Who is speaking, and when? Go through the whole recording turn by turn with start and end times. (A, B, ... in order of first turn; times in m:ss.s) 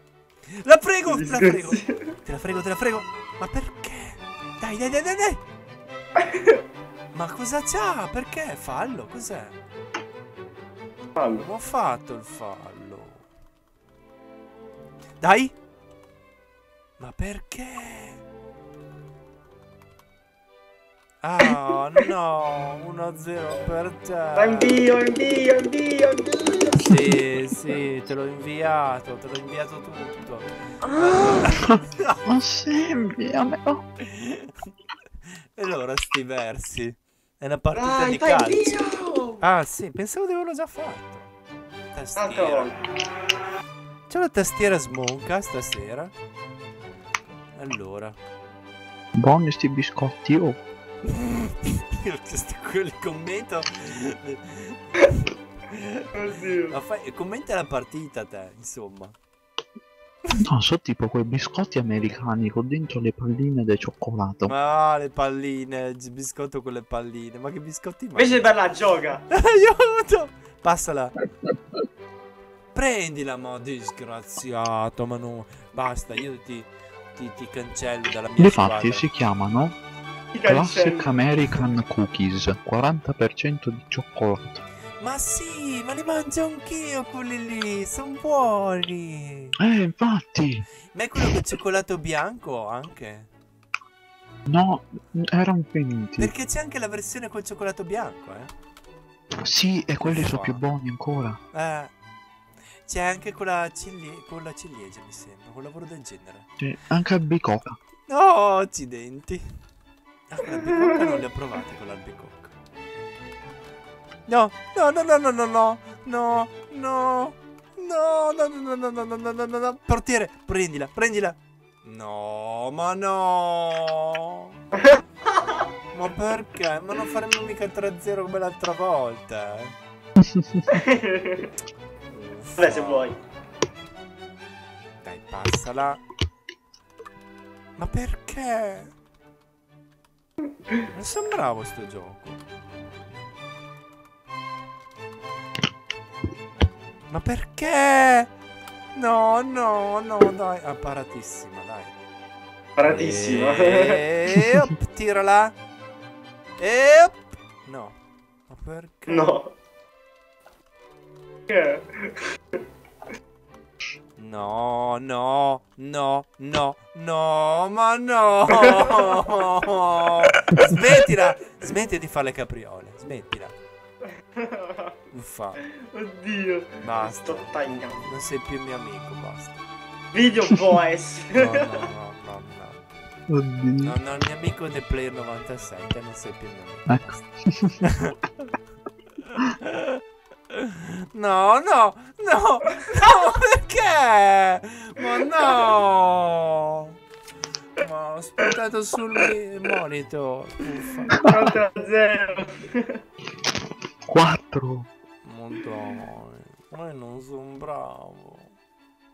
0:00.5-0:05.4 A
0:01.1-0:02.1 B
0:06.2-0:06.6 B
0:07.1-0:09.6 A
0:11.2-0:11.4 B
0:11.3-0:13.2 A
0:15.2-0:15.5 A
0:17.0-0:18.2 A
0:21.2-0:24.8 A
0:24.4-0:27.2 B
0:26.8-0:32.2 A
0:30.8-0:31.5 B
0:32.2-0:33.8 C
0:34.0-0:34.7 A
0:35.6-0:38.7 A
0:37.7-0:39.4 B
0:39.4-0:41.3 A
0:41.9-0:42.7 A
0:42.2-0:42.8 B
0:44.1-0:46.1 A
0:47.4-0:48.2 A
0:49.2-0:50.6 C
0:51.1-0:56.1 A
0:56.1-0:56.8 B
0:56.7-0:59.2 A
1:00.4-1:04.6 C
1:04.5-1:08.6 A
1:08.2-1:09.2 B
1:09.3-1:11.2 A
1:12.7-1:19.0 A
1:18.4-1:19.8 C
1:20.3-1:21.2 B
1:20.4-1:24.6 C
1:25.0-1:29.6 A
1:29.6-1:30.6 C
1:30.9-1:33.3 A
1:31.2-1:31.5 C
1:34.5-1:36.3 C
1:36.2-1:38.5 A
1:39.3-1:41.4 C
1:40.0-1:40.6 A
1:41.5-1:41.9 A
1:42.9-1:46.5 A
1:46.6-1:47.8 C
1:48.1-1:49.4 A
1:50.3-1:52.5 A
1:54.3-2:04.5 A
2:05.9-2:09.7 A
2:10.2-2:10.6 C
2:10.7-2:11.5 B
2:12.1-2:13.2 A
2:12.6-2:13.2 B
2:15.0-2:16.0 A
2:17.8-2:18.9 A
2:20.9-2:22.4 A
2:27.1-2:28.3 A
2:29.0-2:31.9 A
2:32.8-2:34.0 B
2:32.9-2:35.6 A
2:36.6-2:38.0 A
2:38.5-2:39.4 A
2:39.1-2:39.5 B
2:41.5-2:42.2 B
2:44.2-2:53.5 A
2:48.5-2:49.3 B
2:50.3-2:50.8 B
2:54.4-2:54.9 B
2:55.1-2:55.6 A
2:55.8-2:58.1 B
2:56.8-2:59.6 A
3:00.1-3:01.9 B
3:01.4-3:02.8 A
3:03.3-3:04.0 C
3:03.8-3:07.2 A
3:06.9-3:07.9 C
3:07.8-3:08.2 A
3:09.2-3:17.0 A
3:17.8-3:21.2 A
3:21.1-3:23.0 B
3:24.1-3:24.9 C
3:25.2-3:28.6 A